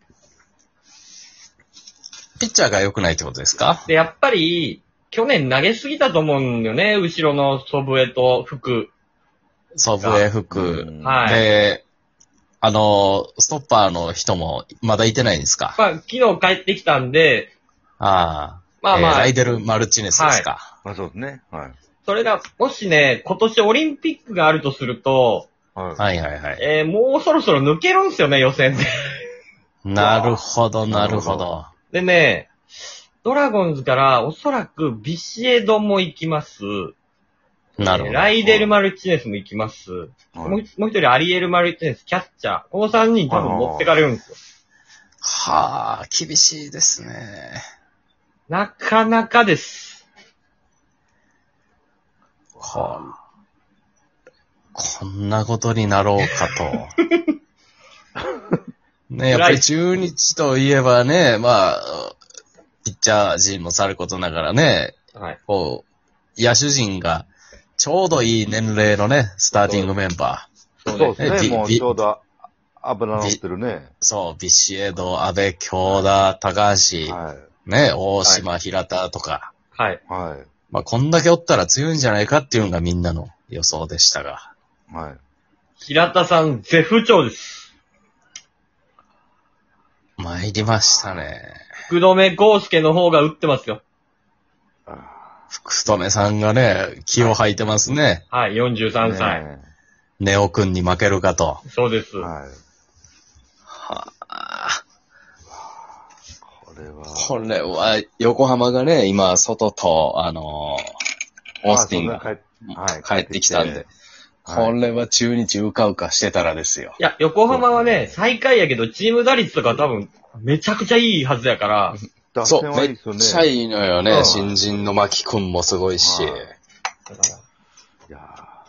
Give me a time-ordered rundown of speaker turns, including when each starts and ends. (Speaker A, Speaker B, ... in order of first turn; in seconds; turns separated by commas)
Speaker A: 2.4-3.9, Speaker B: 3.9-8.9, Speaker A: 9.8-11.8, Speaker B: 10.0-10.2, Speaker C: 10.5-11.3, Speaker B: 11.0-11.4, Speaker A: 12.6-15.8, Speaker B: 15.8-17.5, Speaker A: 18.0-20.7, Speaker B: 18.8-19.6, Speaker B: 20.1-20.5, Speaker C: 20.8-21.8, Speaker B: 22.1-25.5, Speaker C: 25.8-26.0, Speaker A: 26.0-26.6, Speaker B: 26.6-29.2, Speaker A: 29.9-31.7, Speaker B: 30.0-30.3, Speaker C: 30.9-31.5, Speaker B: 31.9-32.5, Speaker B: 33.2-37.0, Speaker A: 37.8-38.6, Speaker B: 37.8-44.4, Speaker C: 40.4-40.6, Speaker C: 43.3-44.0, Speaker A: 45.2-47.6, Speaker B: 48.5-50.1, Speaker A: 52.6-53.1, Speaker A: 54.8-56.9, Speaker A: 59.1-62.2, Speaker B: 59.3-59.7, Speaker A: 62.9-65.0, Speaker A: 65.5-65.8, Speaker A: 66.4-67.3, Speaker A: 67.8-70.5, Speaker B: 69.6-69.9, Speaker B: 70.8-71.4, Speaker C: 70.9-73.9, Speaker A: 71.2-71.9, Speaker A: 74.0-79.5, Speaker C: 77.0-77.5, Speaker B: 79.7-80.0, Speaker C: 80.1-80.5, Speaker A: 80.7-84.5, Speaker C: 84.9-85.2, Speaker B: 85.8-87.7, Speaker A: 90.2-91.6, Speaker C: 90.9-91.3, Speaker B: 91.9-93.8, Speaker C: 94.9-95.4, Speaker A: 95.5-98.2, Speaker B: 98.3-99.4, Speaker C: 99.0-99.7, Speaker A: 100.2-101.6, Speaker B: 101.7-102.3, Speaker C: 102.2-102.6, Speaker A: 103.7-104.8, Speaker C: 106.4-107.4, Speaker A: 107.1-110.8, Speaker A: 111.6-113.9, Speaker C: 111.7-113.9, Speaker A: 114.5-117.0, Speaker C: 114.5-114.8, Speaker B: 117.0-122.0, Speaker C: 117.5-118.2, Speaker C: 122.3-123.5, Speaker A: 122.4-126.5, Speaker B: 124.1-124.5, Speaker C: 126.0-126.5, Speaker B: 127.1-127.4, Speaker C: 128.1-128.5